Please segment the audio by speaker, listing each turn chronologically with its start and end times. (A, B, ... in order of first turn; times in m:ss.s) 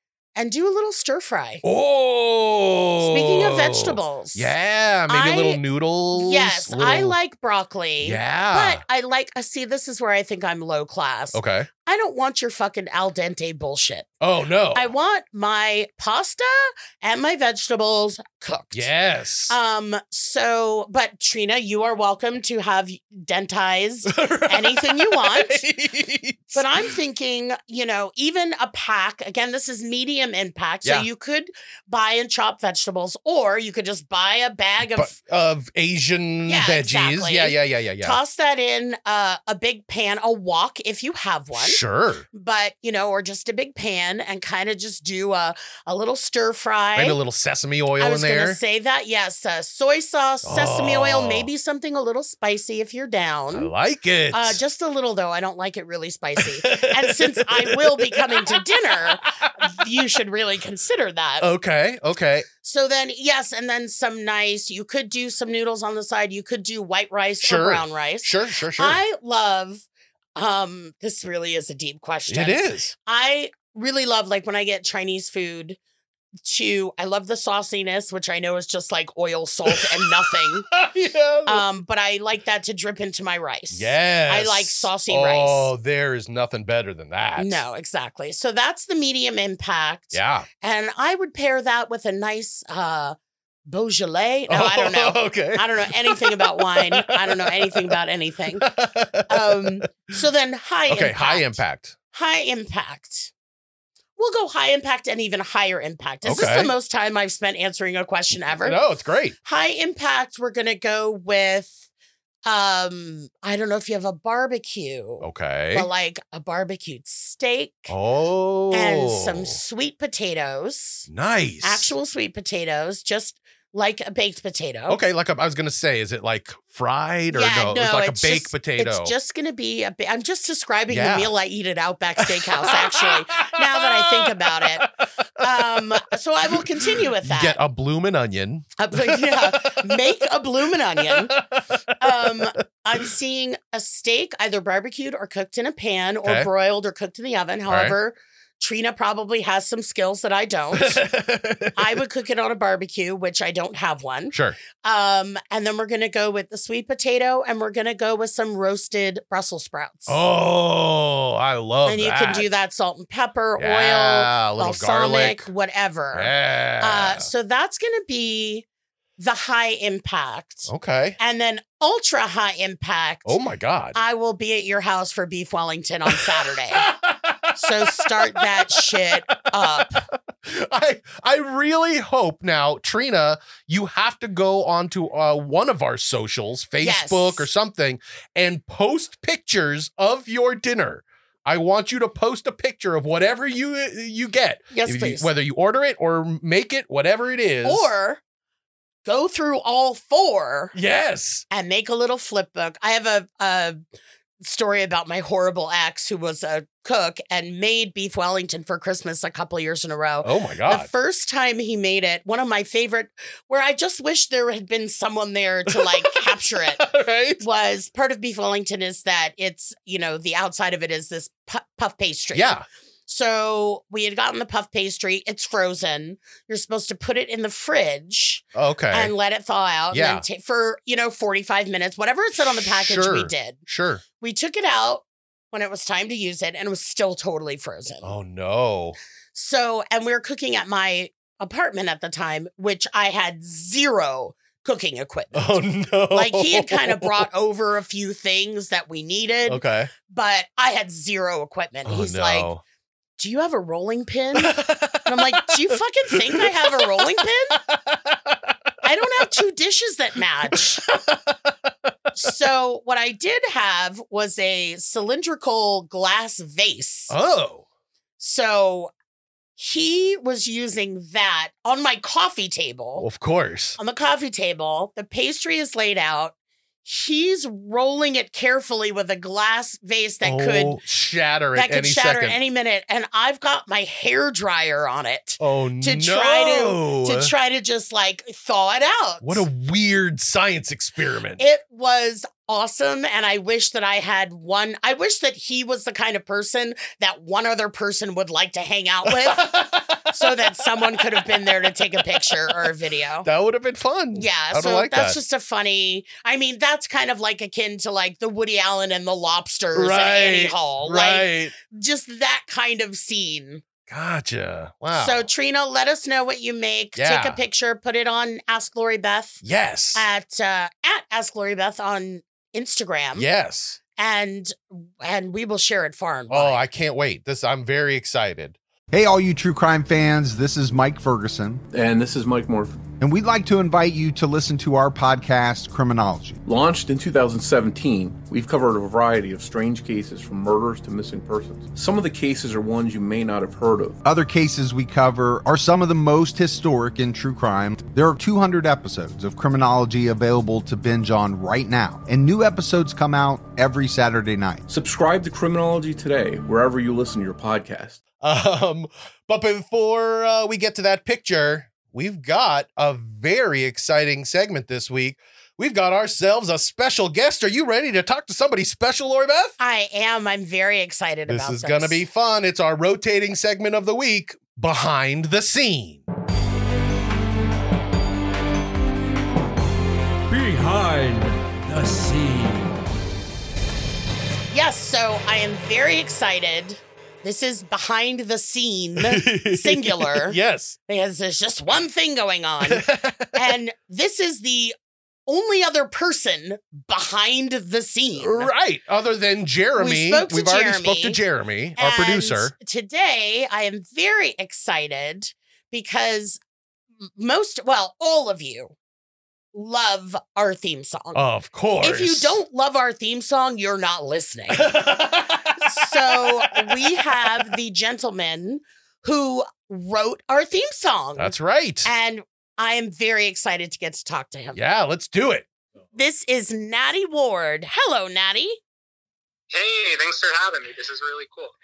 0:00.4-0:01.6 A
0:01.6-0:07.2 B
0:03.0-0:04.5 A
0:05.1-0:05.6 A
0:06.1-0:14.1 A
0:08.0-0:08.8 B
0:11.3-0:11.7 B
0:14.2-0:14.9 B
0:14.7-0:18.9 A
0:18.7-0:19.6 B
0:19.5-0:25.6 A
0:24.1-0:26.9 B
0:26.5-0:35.2 A
0:35.0-0:38.2 B
0:36.5-0:41.8 A
0:41.5-0:42.3 B
0:42.3-0:47.2 A
0:47.0-0:48.6 B
0:48.0-0:53.7 A
0:50.4-0:51.5 B
0:53.5-0:54.6 B
0:54.3-1:01.5 A
0:56.4-0:59.9 B
1:01.4-1:02.5 B
1:02.6-1:15.8 A
1:07.4-1:09.0 B
1:12.3-1:12.9 B
1:16.4-1:20.7 A
1:19.7-1:21.6 B
1:21.5-1:25.7 A
1:23.7-1:27.6 B
1:27.4-1:33.2 A
1:30.1-1:30.5 B
1:33.7-1:38.7 A
1:34.5-1:38.0 B
1:38.6-1:40.1 B
1:39.3-1:41.6 A
1:40.9-1:42.0 B
1:42.1-1:43.3 A
1:44.2-1:48.8 A
1:46.2-1:46.7 B
1:48.5-1:49.4 B
1:49.4-1:51.8 A
1:52.4-1:57.9 A
1:55.2-1:55.9 B
1:57.9-1:59.6 B
1:58.7-2:01.1 A
2:01.1-2:01.9 B
2:01.6-2:05.0 A
2:04.9-2:09.1 B
2:07.3-2:14.9 A
2:10.9-2:11.3 B
2:12.2-2:15.8 B
2:15.4-2:17.6 A
2:16.5-2:20.0 B
2:18.8-2:21.4 A
2:21.1-2:22.5 B
2:22.0-2:31.1 A
2:27.7-2:28.0 B
2:30.7-2:32.0 B
2:31.8-2:40.2 A
2:34.3-2:34.6 B
2:40.1-2:42.5 B
2:41.8-2:48.7 A
2:43.6-2:45.5 B
2:46.1-2:47.3 B
2:49.2-2:53.4 A
2:50.7-2:51.2 B
2:53.2-2:54.0 B
2:54.0-2:56.9 A
2:56.1-3:17.9 B
2:57.6-3:00.1 A
3:06.8-3:07.5 A
3:14.7-3:15.3 A
3:17.6-3:18.2 A
3:19.1-3:20.8 A
3:20.7-3:21.4 B
3:21.5-3:23.8 A
3:24.4-3:36.8 A
3:30.2-3:30.9 B
3:35.7-3:37.4 B
3:37.4-3:53.6 A
3:42.3-3:42.6 B
3:48.6-3:49.1 B
3:49.9-3:50.2 B
3:52.4-3:54.0 B
3:54.2-3:58.1 A
3:58.0-3:59.0 B
3:59.4-4:05.6 A
4:05.4-4:07.3 B
4:06.1-4:12.5 A
4:09.5-4:09.9 B
4:11.8-4:12.6 B
4:13.2-4:17.6 A
4:14.4-4:18.6 B
4:18.8-4:20.9 A
4:20.5-4:21.4 B
4:22.2-4:27.2 A
4:27.1-4:27.6 B
4:28.2-4:28.9 A
4:29.6-4:33.1 A
4:33.0-4:33.8 B
4:33.8-4:36.3 A
4:36.8-4:40.8 A
4:40.2-4:42.4 B
4:41.6-4:49.5 A
4:45.4-4:47.3 B
4:49.2-4:51.4 B
4:51.4-5:03.3 A
4:59.1-5:02.7 B
5:03.2-5:05.2 B
5:04.2-5:13.6 A
5:09.7-5:11.5 B
5:13.9-5:15.3 B
5:14.9-5:19.4 A
5:17.0-5:17.4 B
5:19.4-5:20.1 B
5:19.9-5:23.3 A
5:23.2-5:23.8 B
5:24.0-5:26.6 A
5:26.3-5:28.6 B
5:28.9-5:31.6 C
5:31.7-5:32.9 D
5:33.0-5:36.4 C
5:36.4-5:44.0 D
5:44.0-5:54.7 C
5:54.7-5:58.0 D
5:58.2-6:09.6 B
6:09.6-6:12.0 A
6:11.3-6:16.0 B
6:20.3-6:22.7 B
6:24.5-6:34.8 A
6:29.0-6:30.8 B
6:32.6-6:33.5 B
6:35.3-6:38.5 A
6:38.2-6:42.5 B
6:39.8-6:41.2 A
6:41.8-6:46.4 A
6:47.2-6:48.8 A
6:49.5-6:51.2 A
6:51.2-6:52.4 B
6:51.8-6:54.8 A
6:54.5-6:57.5 B
6:55.6-7:01.3 A
7:01.2-7:01.9 B
7:01.8-7:04.6 A
7:04.6-7:05.5 B
7:05.9-7:08.6 A
7:09.5-7:11.5 E